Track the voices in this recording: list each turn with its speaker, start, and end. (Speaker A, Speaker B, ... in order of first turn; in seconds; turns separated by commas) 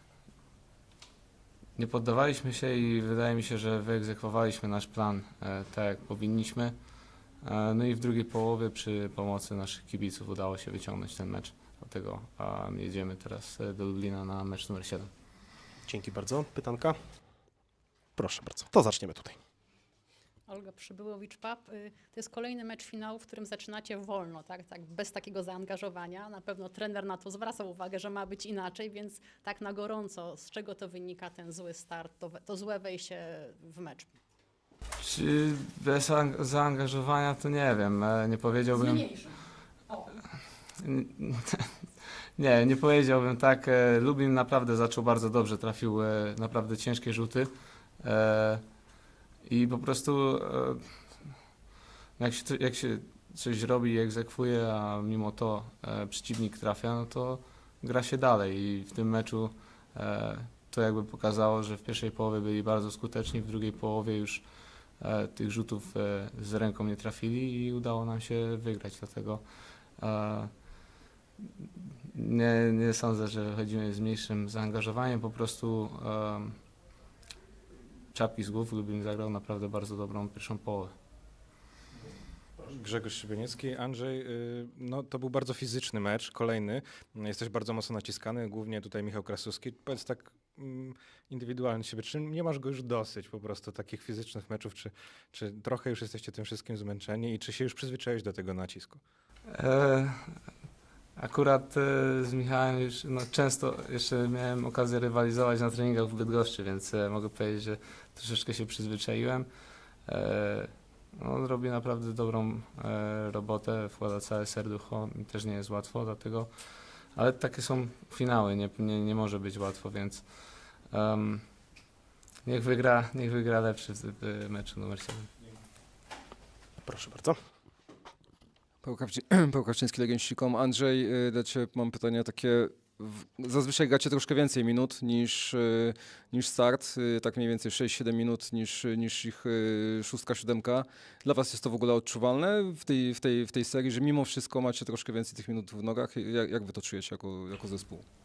Speaker A: 1.8-15.1, Speaker B: 15.9-17.0, Speaker B: 18.2-19.4, Speaker C: 20.5-34.1, Speaker A: 35.0-39.3, Speaker C: 38.7-40.1, Speaker A: 40.8-41.8, Speaker A: 42.4-48.8, Speaker A: 49.4-51.4, Speaker A: 52.2-70.9, Speaker A: 72.1-76.7, Speaker A: 78.1-80.9, Speaker D: 82.6-99.0, Speaker A: 99.5-100.4, Speaker A: 101.2-121.9, Speaker A: 122.4-125.3, Speaker B: 126.8-127.4, Speaker E: 128.8-148.1